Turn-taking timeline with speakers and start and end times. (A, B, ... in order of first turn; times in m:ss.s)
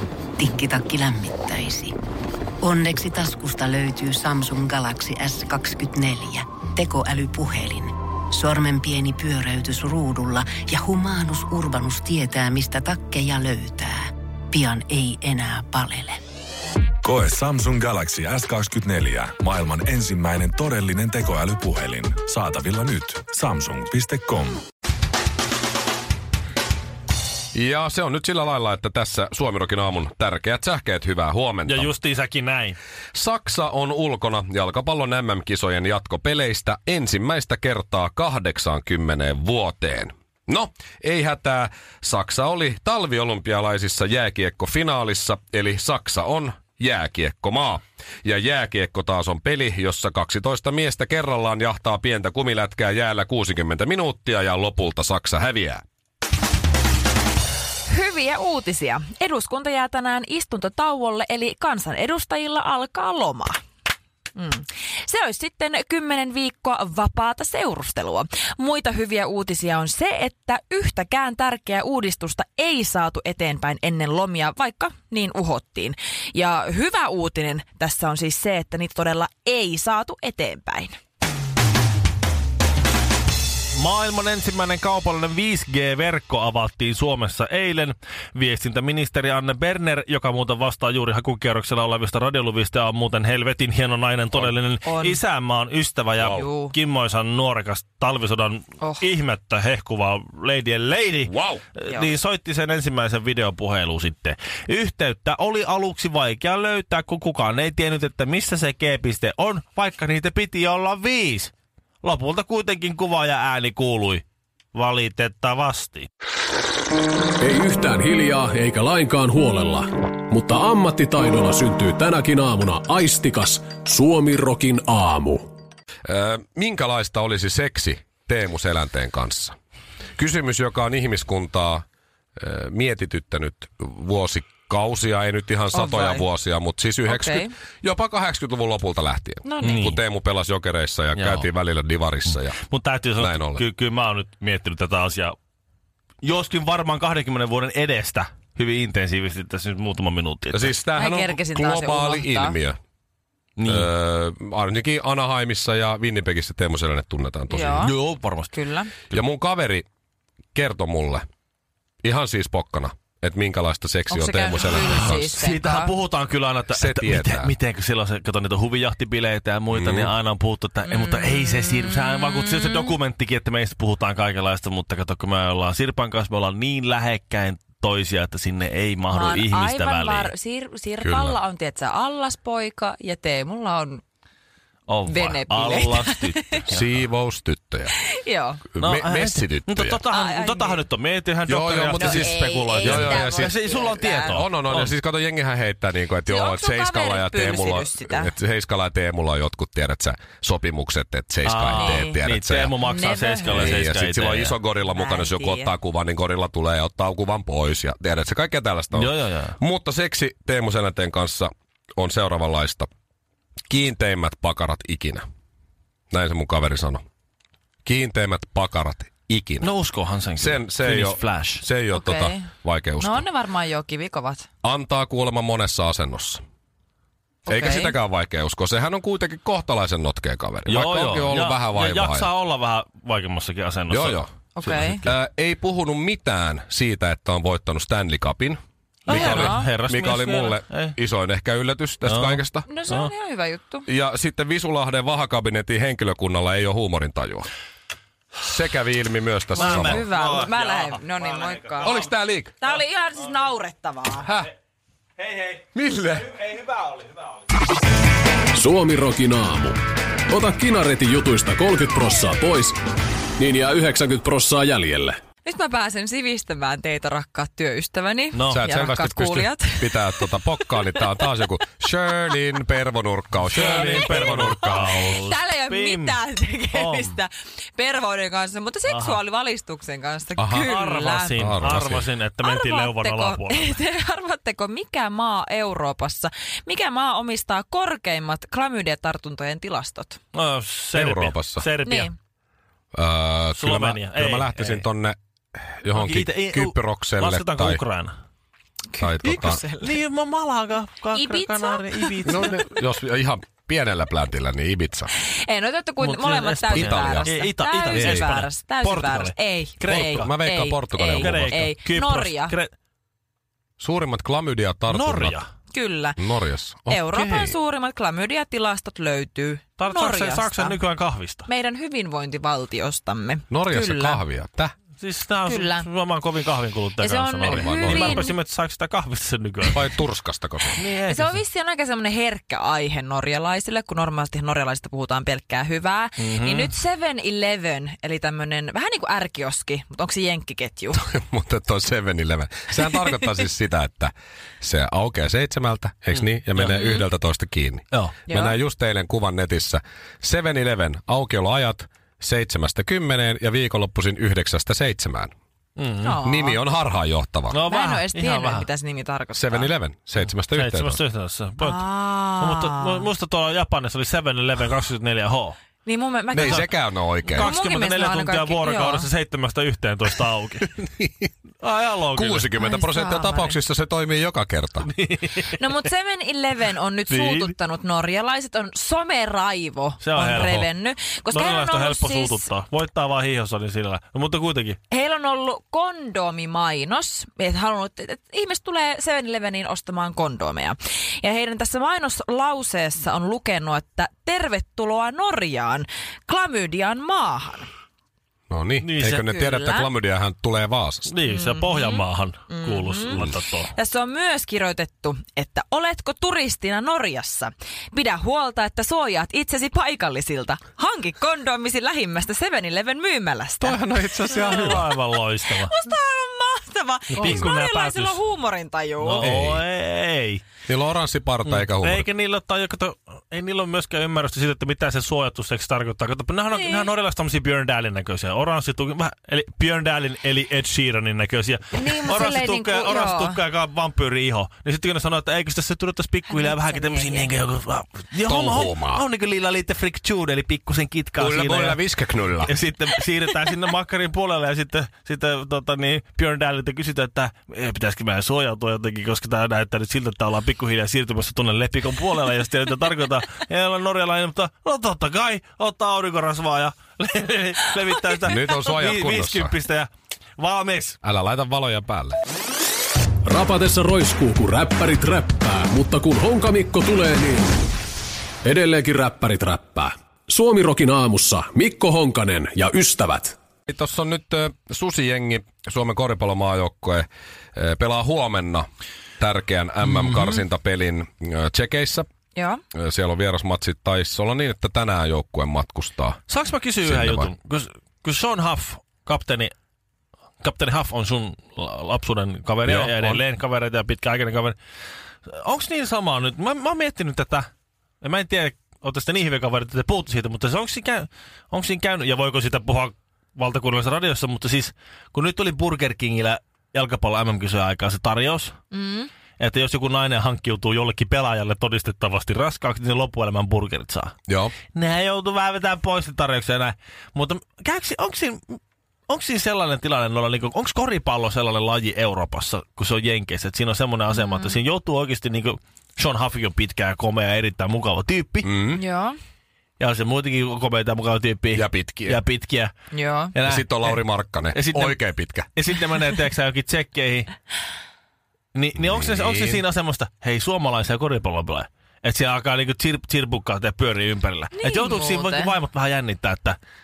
0:00.4-0:01.9 A
0:02.6-0:16.2 A
0:17.0-0:24.6 B
0:27.5-0:31.9 C
0:31.7-0:32.8 D
0:33.2-0:55.8 C
0:57.9-1:03.6 E
1:04.4-1:21.0 E
1:23.7-1:51.5 D
1:34.8-1:35.2 E
1:36.2-1:36.4 C
1:36.3-1:36.7 E
1:38.8-1:39.1 E
1:41.3-1:41.6 C
1:52.0-1:56.1 D
1:57.4-2:05.4 F
2:06.1-2:09.6 C
2:10.2-2:11.8 C
2:12.4-2:22.6 C
2:15.7-2:16.2 E
2:17.1-2:17.5 E
2:19.4-2:19.9 E
2:19.6-2:20.0 D
2:21.2-2:21.5 D
2:22.3-2:25.4 D
2:23.2-2:23.6 C
2:26.2-2:30.7 D
2:30.5-2:32.8 C
2:31.0-2:32.6 E
2:33.6-2:33.9 D
2:33.6-2:37.9 C
2:37.5-2:37.9 E
2:37.7-2:38.5 D
2:38.5-2:38.9 E
2:39.1-2:39.8 C
2:40.5-2:41.2 C
2:42.0-2:45.3 C
2:44.1-2:45.9 E
2:44.7-3:00.3 D
2:46.7-2:47.5 C
2:49.7-2:50.1 C
2:50.9-2:52.9 E
2:59.1-3:04.0 E
3:01.0-3:01.4 C
3:04.9-3:07.0 D
3:05.1-3:06.6 E
3:06.7-3:07.9 C
3:08.0-3:08.6 E
3:08.7-3:10.0 C
3:08.8-3:15.0 D
3:10.1-3:10.8 E
3:11.5-3:22.8 C
3:11.9-3:14.5 E
3:16.3-3:18.3 E
3:21.4-3:24.6 D
3:21.7-3:22.2 E
3:22.8-3:23.8 E
3:23.4-3:32.9 C
3:24.8-3:25.7 E
3:28.9-3:29.6 D
3:33.7-3:35.2 C
3:36.1-3:37.0 C
3:37.8-3:39.7 C
3:39.6-3:41.6 D
3:40.4-3:43.3 C
3:41.9-3:44.5 E
3:44.6-3:46.4 C
3:47.5-3:48.0 E
3:47.5-3:52.3 C
3:50.7-3:54.9 D
3:53.9-4:02.7 C
3:54.6-3:55.0 E
3:59.1-4:01.0 D
3:59.1-3:59.7 E
4:02.0-4:03.1 D
4:02.7-4:03.9 E
4:03.9-4:07.5 C
4:08.4-4:10.1 C
4:09.6-4:12.0 E
4:09.6-4:12.1 D
4:11.8-4:12.6 C
4:12.6-4:14.3 E
4:14.2-4:14.5 C
4:15.2-4:15.7 D
4:15.8-4:16.3 C
4:16.2-4:17.4 D
4:18.6-4:19.8 F
4:20.3-4:22.8 F
4:23.4-4:25.1 F
4:25.4-4:31.2 E
4:28.3-4:28.7 D
4:28.5-4:35.2 C
4:33.4-4:36.2 D
4:33.6-4:41.5 E
4:36.7-4:37.1 D
4:38.9-4:39.2 D
4:40.4-4:40.7 C
4:40.6-4:43.8 D
4:41.3-4:42.1 C
4:42.4-4:50.2 E
4:50.3-4:52.1 D
4:50.9-4:51.7 C
4:51.8-4:52.2 E
4:52.9-4:57.8 C
4:53.6-4:54.8 D
4:56.0-4:58.2 D
4:58.9-5:00.0 E
4:59.0-4:59.6 C
4:59.3-5:02.6 D
5:01.1-5:02.6 E
5:02.2-5:05.1 C
5:05.2-5:12.6 E
5:06.0-5:10.3 D
5:06.7-5:07.3 C
5:07.9-5:08.3 C
5:09.9-5:11.7 C
5:11.2-5:12.7 D
5:13.8-5:15.4 C
5:14.9-5:15.5 D
5:15.7-5:16.2 E
5:16.2-5:17.6 C
5:16.9-5:20.8 E
5:19.8-5:21.5 D
5:21.5-5:24.2 E
5:23.5-5:24.7 C
5:25.0-5:29.8 D
5:25.5-5:25.9 E
5:27.0-5:28.4 E
5:27.4-5:28.2 C
5:29.7-5:30.8 C
5:30.8-5:31.4 D
5:31.1-5:41.0 E
5:36.2-5:36.7 D
5:40.9-5:55.3 C
5:46.5-5:46.8 D
5:46.8-5:47.0 E
5:48.3-5:48.6 E
5:55.8-5:56.2 D
5:56.0-5:56.6 E
5:56.2-5:57.6 C
5:57.5-5:58.7 D
5:57.7-5:59.7 E
5:59.4-6:01.0 C
6:00.5-6:01.9 D
6:01.6-6:03.1 E
6:02.4-6:05.6 D
6:05.8-6:06.7 E
6:06.3-6:07.5 C
6:06.4-6:06.7 D
6:07.3-6:09.1 E
6:07.3-6:10.7 D
6:10.8-6:11.3 C
6:11.6-6:12.5 D
6:12.1-6:14.9 C
6:12.6-6:13.6 E
6:14.8-6:15.6 D
6:15.4-6:22.5 E
6:17.1-6:17.5 D
6:20.0-6:20.7 D
6:21.3-6:24.8 D
6:24.9-6:37.7 E
6:38.5-6:41.1 C
6:38.8-6:39.2 D
6:39.0-6:39.9 E
6:41.1-6:43.7 D
6:41.3-6:59.3 E
6:53.6-6:54.9 C
6:54.3-6:55.7 D
6:57.2-6:57.5 C
6:57.2-6:58.2 D
6:59.0-7:00.4 D
6:59.2-6:59.6 C
7:00.7-7:02.1 C
7:01.5-7:21.8 D
7:06.5-7:06.9 E
7:11.8-7:13.4 E
7:16.3-7:17.3 E
7:18.2-7:19.0 C
7:21.2-7:22.5 C
7:22.4-7:41.0 D
7:38.2-7:39.6 C
7:41.0-7:42.2 C
7:43.2-7:47.5 F
7:48.4-7:53.3 F
7:53.7-7:58.7 C
7:59.2-8:02.1 C
7:59.9-8:00.3 D
8:02.4-8:02.6 E
8:02.7-8:06.2 C
8:06.3-8:09.5 D
8:06.8-8:07.3 C
8:10.4-8:14.6 D
8:12.7-8:13.2 C
8:15.3-8:17.5 D
8:18.0-8:28.6 D
8:28.7-8:29.1 E
8:29.4-8:34.2 D
8:34.3-8:34.5 C
8:34.7-8:48.5 D
8:44.1-8:44.6 E
8:48.4-8:48.8 C
8:48.8-8:49.2 E
8:49.8-8:52.7 D
8:51.5-8:52.2 C
8:52.9-8:53.3 E
8:53.3-8:57.3 D
8:53.4-8:55.5 C
8:58.5-9:06.6 D
8:58.8-8:59.6 C
9:04.6-9:05.5 E